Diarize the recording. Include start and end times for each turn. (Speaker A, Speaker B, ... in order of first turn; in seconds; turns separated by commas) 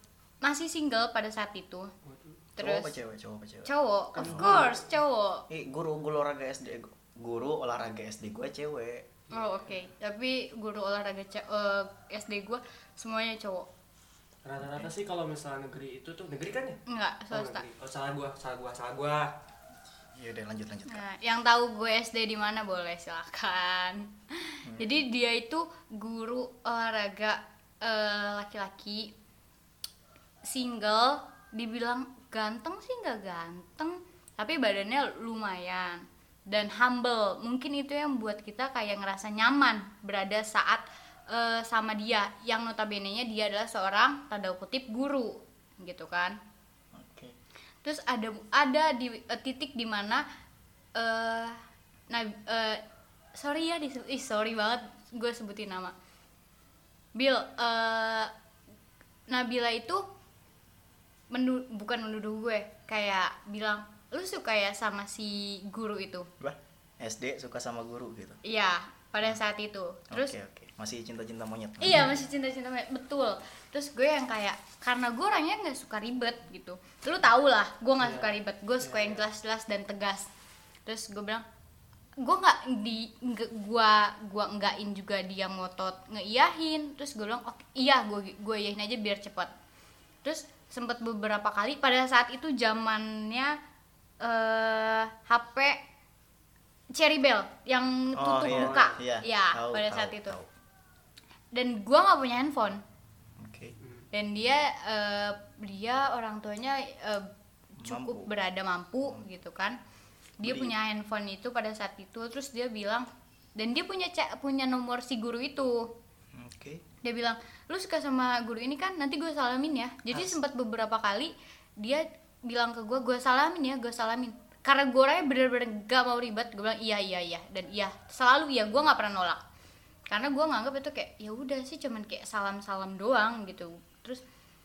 Speaker A: 0.4-1.9, Speaker B: 2.0-2.4, Speaker A: 2.6-2.9, Speaker C: 2.6-4.7, Speaker A: 3.6-5.5, Speaker B: 4.2-4.9, Speaker C: 5.5-9.1, Speaker B: 9.3-9.6, Speaker A: 9.3-13.7, Speaker B: 14.4-19.3, Speaker A: 16.9-17.7, Speaker C: 20.1-21.0, Speaker A: 20.9-29.1, Speaker C: 24.6-24.9, Speaker A: 30.4-46.4, Speaker C: 46.9-47.3, Speaker A: 47.8-50.2, Speaker A: 50.9-52.8, Speaker A: 53.3-55.9, Speaker A: 57.1-58.3, Speaker A: 59.3-60.0, Speaker A: 61.3-66.3, Speaker C: 66.4-68.4, Speaker A: 68.4-70.3, Speaker C: 70.1-72.1, Speaker A: 71.8-80.3, Speaker B: 78.0-79.3, Speaker A: 80.8-81.4, Speaker A: 82.2-89.5, Speaker A: 90.2-93.5, Speaker A: 94.2-95.8, Speaker A: 96.9-100.3, Speaker C: 98.1-100.5, Speaker B: 98.4-99.0, Speaker A: 101.5-102.8, Speaker C: 103.4-103.7, Speaker B: 103.8-104.1, Speaker A: 104.1-107.3, Speaker C: 107.8-108.3, Speaker A: 107.8-109.8, Speaker A: 110.4-115.9, Speaker C: 110.4-110.7, Speaker C: 116.3-116.8, Speaker A: 117.0-129.4, Speaker C: 120.1-120.4, Speaker A: 130.1-134.2